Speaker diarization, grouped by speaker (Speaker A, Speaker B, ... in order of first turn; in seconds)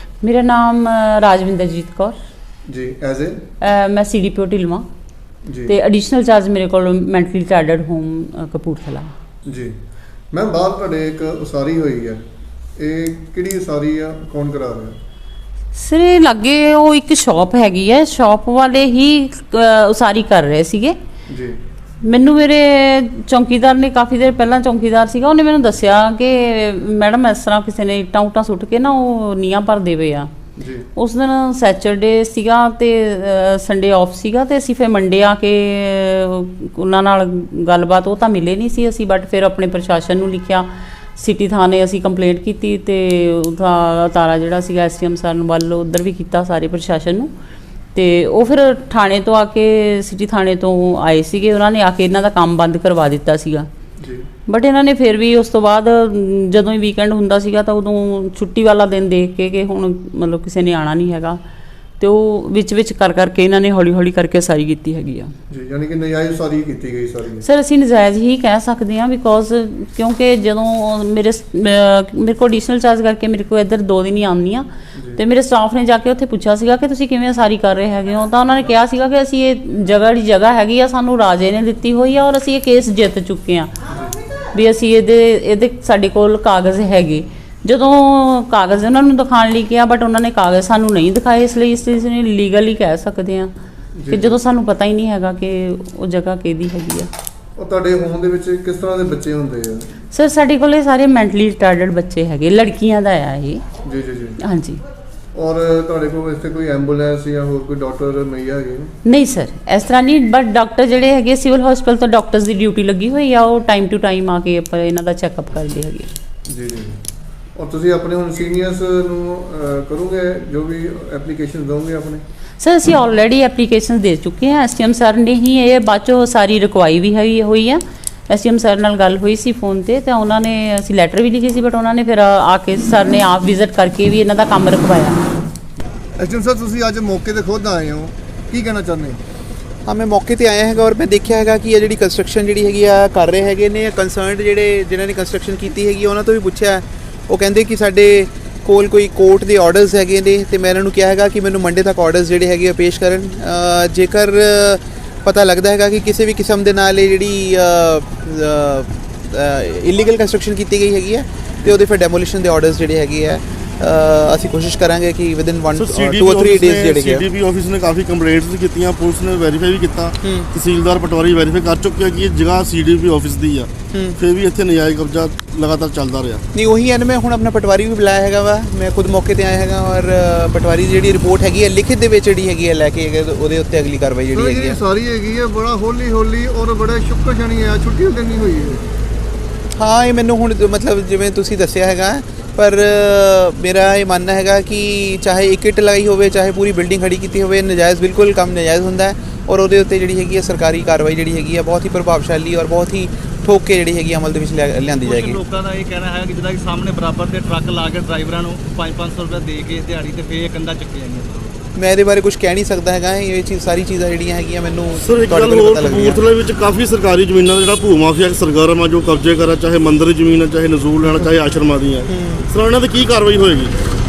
Speaker A: 0.2-2.2, 3.6-4.9, 5.7-9.1, 15.8-21.0, 22.0-30.3, 31.0-47.3, 47.9-53.7, 54.5-61.4, 62.0-65.3, 67.4-83.7, 84.5-93.5, 94.1-97.1, 100.1-103.6, 104.4-104.8, 109.0-116.1, 122.6-135.2
Speaker B: 2.7-3.4, 5.5-5.7, 9.4-9.8, 10.3-12.2, 12.8-15.0, 21.3-21.6, 30.6-30.9, 54.0-54.3, 65.5-67.5, 83.9-84.2, 94.0-94.4, 97.6-99.9, 103.8-104.4, 105.3-108.9, 116.5-117.0, 117.6-122.2, 136.2-139.2, 184.3-188.8
Speaker C: 139.9-167.2, 170.2-170.5, 173.9-174.2, 176.5-184.8, 189.8-205.4, 211.8-216.2, 222.1-222.5
Speaker D: 165.8-176.4, 215.0-223.7
Speaker E: 205.1-211.5